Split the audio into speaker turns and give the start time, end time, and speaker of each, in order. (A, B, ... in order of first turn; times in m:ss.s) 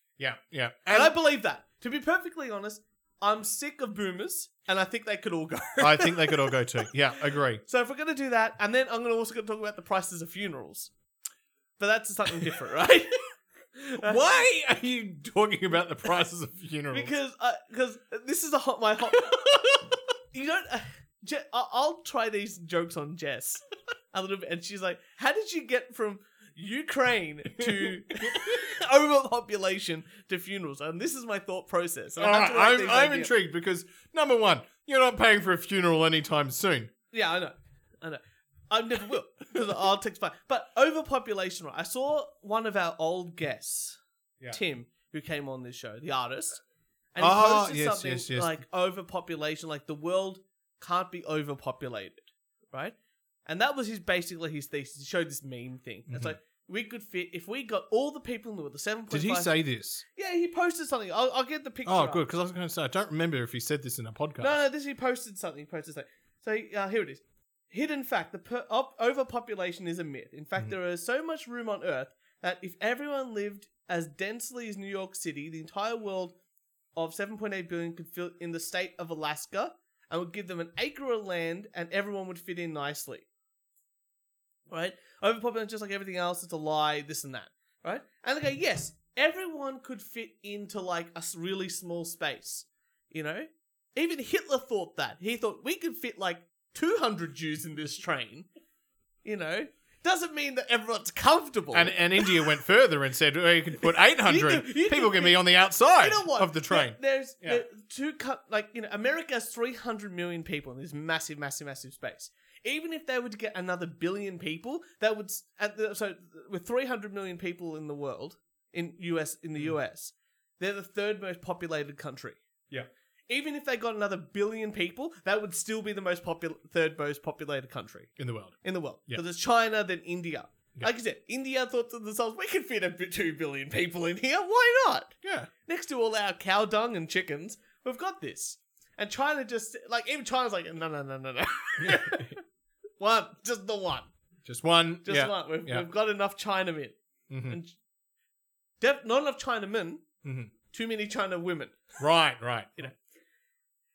0:00.2-0:01.2 A
0:00.9-0:06.8 B
0:05.8-0:07.6 A
0:07.6-0:10.9 B
0:11.8-0:13.2 B
0:13.8-0:14.2 B
0:14.0-0:17.1 A
0:16.9-0:19.6 B
0:19.2-0:19.5 A
0:20.3-0:33.3 B
0:27.6-0:28.6 A
0:32.2-0:36.9 A
0:37.1-0:46.6 B
0:47.1-0:52.9 B
0:47.2-0:48.6 A
0:53.4-0:59.6 B
0:56.1-0:56.4 A
0:59.1-1:00.0 A
1:00.1-1:02.2 B
1:01.8-1:04.6 A
1:04.4-1:16.3 B
1:16.9-1:23.3 B
1:24.7-1:38.5 B
1:39.2-1:42.5 B
1:41.7-1:47.6 A
1:44.2-1:45.4 B
1:46.0-2:02.4 B
2:03.3-2:08.1 B
2:08.2-2:09.2 A
2:08.6-2:22.4 B
2:15.2-2:15.5 A
2:21.8-2:22.3 A
2:23.0-2:24.1 B
2:24.4-2:25.9 A
2:25.0-2:26.9 B
2:27.3-2:27.6 A
2:27.4-2:27.7 B
2:28.8-2:30.0 B
2:30.2-2:30.5 A
2:30.7-2:31.9 B
2:32.0-2:32.9 A